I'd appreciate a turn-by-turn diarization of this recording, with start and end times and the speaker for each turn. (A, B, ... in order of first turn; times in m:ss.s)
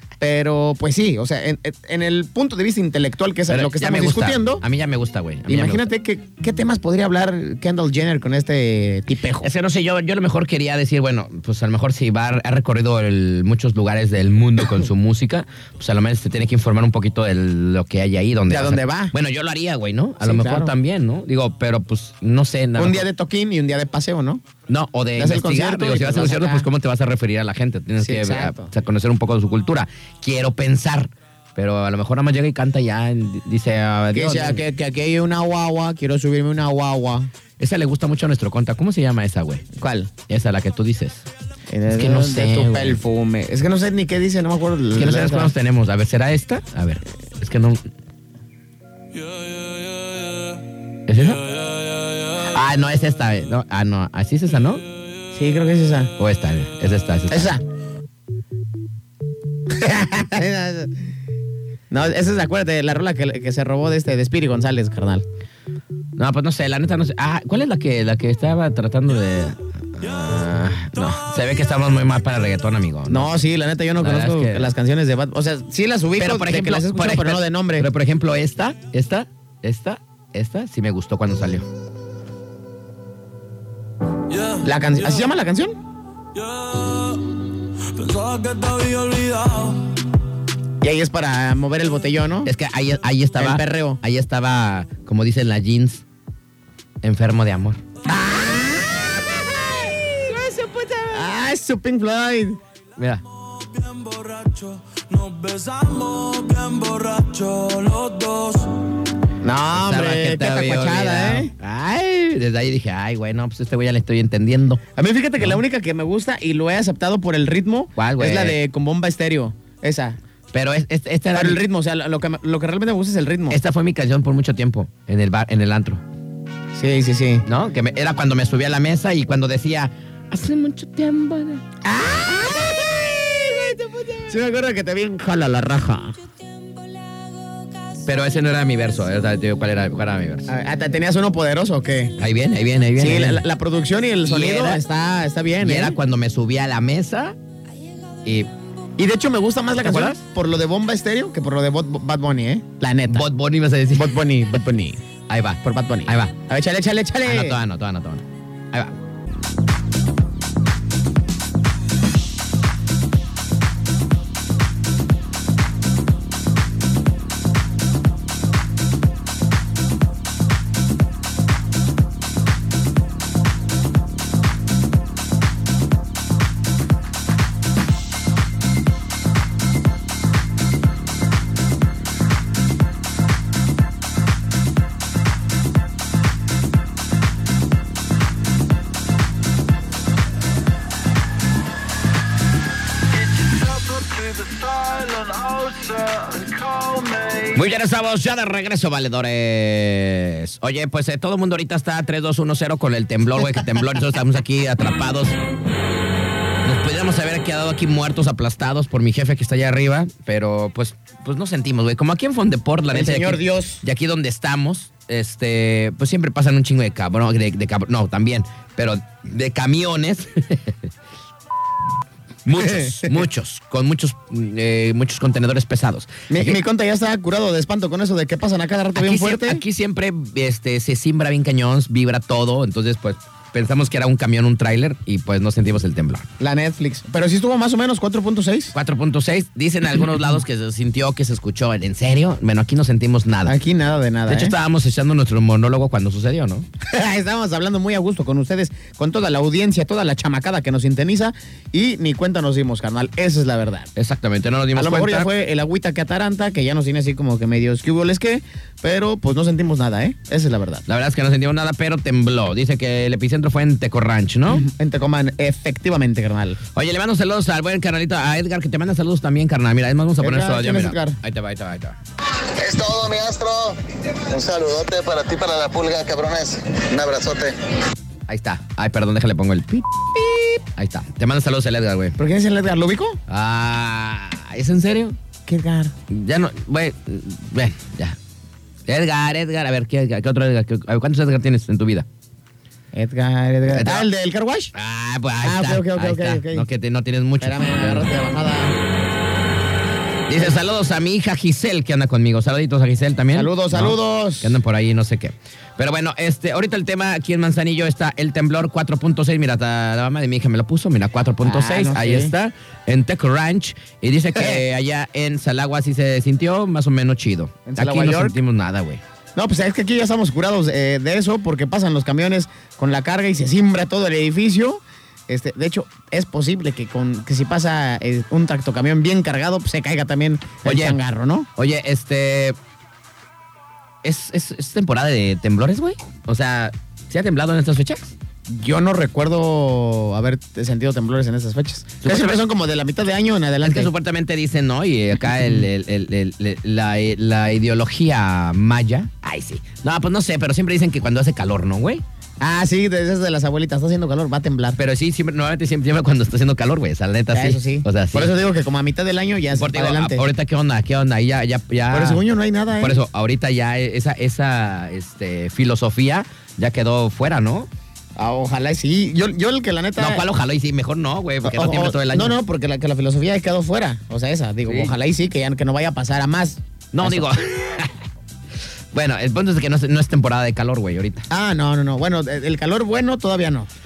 0:00.2-0:04.6 A
0:03.5-0:05.9 B
0:05.5-0:09.5 A
0:09.4-0:23.1 B
0:18.5-0:19.1 A
0:20.2-0:20.7 A
0:22.8-0:24.4 A
0:24.7-0:34.6 B
0:25.2-0:26.7 A
0:28.0-0:28.7 A
0:34.1-0:37.3 A
0:37.6-0:39.6 B
0:39.8-0:40.1 A
0:40.3-0:41.3 B
0:41.7-0:45.5 A
0:41.9-0:43.0 B
0:45.0-0:47.8 B
0:49.1-0:50.6 C
0:51.1-0:51.4 B
0:51.3-0:52.4 C
0:52.4-0:54.8 B
0:55.3-0:56.1 A
0:56.2-0:57.5 B
0:57.3-0:57.6 A
0:59.7-1:01.0 A
1:01.9-1:05.2 A
1:06.2-1:13.4 B
1:13.1-1:17.9 A
1:14.0-1:14.7 B
1:16.2-1:21.7 B
1:24.3-1:25.3 C
1:24.6-1:25.8 A
1:26.3-1:30.0 C
1:30.8-1:32.5 A
1:32.4-1:36.0 B
1:33.3-1:34.0 A
1:37.0-1:37.8 B
1:38.0-1:40.1 A
1:40.3-1:41.2 B
1:41.1-1:42.6 A
1:43.0-1:43.2 B
1:43.3-1:49.0 C
1:49.4-1:51.5 A
1:49.7-1:54.8 B
1:54.9-2:00.2 A
1:58.0-1:58.6 B
2:00.5-2:01.6 B
2:01.3-2:03.6 A
2:03.5-2:06.0 B
2:06.7-2:07.4 A
2:07.4-2:11.6 B
2:11.8-2:16.2 A
2:18.0-2:20.5 B
2:20.5-2:22.1 A
2:22.2-2:23.4 B
2:23.0-2:26.0 A
2:24.2-2:24.8 B
2:25.6-2:27.4 B
2:29.0-2:33.3 A
2:29.8-2:30.2 B
2:33.1-2:34.2 B
2:33.9-2:35.0 A
2:35.3-2:36.3 B
2:35.6-2:37.6 A
2:37.2-2:38.9 B
3:13.1-3:17.6 C
3:17.5-3:25.4 B
3:26.6-3:40.9 B
3:32.9-3:33.8 A
3:42.4-3:46.6 B
3:42.8-3:43.2 A
3:46.3-3:49.6 A
3:49.0-3:56.3 B
3:56.4-3:58.7 A
3:58.7-4:03.6 B
4:03.4-4:04.6 A
4:04.3-4:06.7 B
4:06.8-4:13.9 A
4:14.0-4:15.3 B
4:14.7-4:20.8 A
4:20.8-4:24.7 B
4:24.6-4:26.6 A
4:26.7-4:32.0 B
4:30.2-4:31.2 A
4:32.6-4:37.6 D
4:38.3-4:40.0 B
4:40.1-4:40.4 A
4:40.7-4:42.2 B
4:42.2-4:43.2 A
4:43.3-4:45.2 B
4:45.4-4:45.9 A
4:46.1-4:48.2 B
4:48.9-4:52.1 B
4:52.9-4:54.7 A
4:53.7-4:54.0 B
4:54.7-4:58.1 B
4:55.4-4:56.6 A
4:57.4-4:58.8 A
5:00.3-5:19.0 B
5:03.3-5:04.6 A
5:11.4-5:12.3 A
5:14.4-5:14.6 A
5:17.6-5:18.4 A
5:19.4-5:31.5 A
5:30.6-5:31.0 B
5:31.6-5:32.6 B
5:34.0-5:38.1 B
5:38.5-5:43.9 A
5:42.0-5:42.4 B
5:43.6-5:52.0 B
5:52.4-5:54.8 A
5:54.8-5:58.3 B
5:57.3-6:00.3 A
5:59.5-6:02.2 B
6:01.9-6:03.0 A
6:02.8-6:07.7 B
6:08.2-6:10.2 A
6:10.0-6:12.4 B
6:11.4-6:17.3 A
6:14.6-6:14.9 B
6:16.9-6:18.0 B
6:18.9-6:21.3 B
6:21.3-6:23.7 A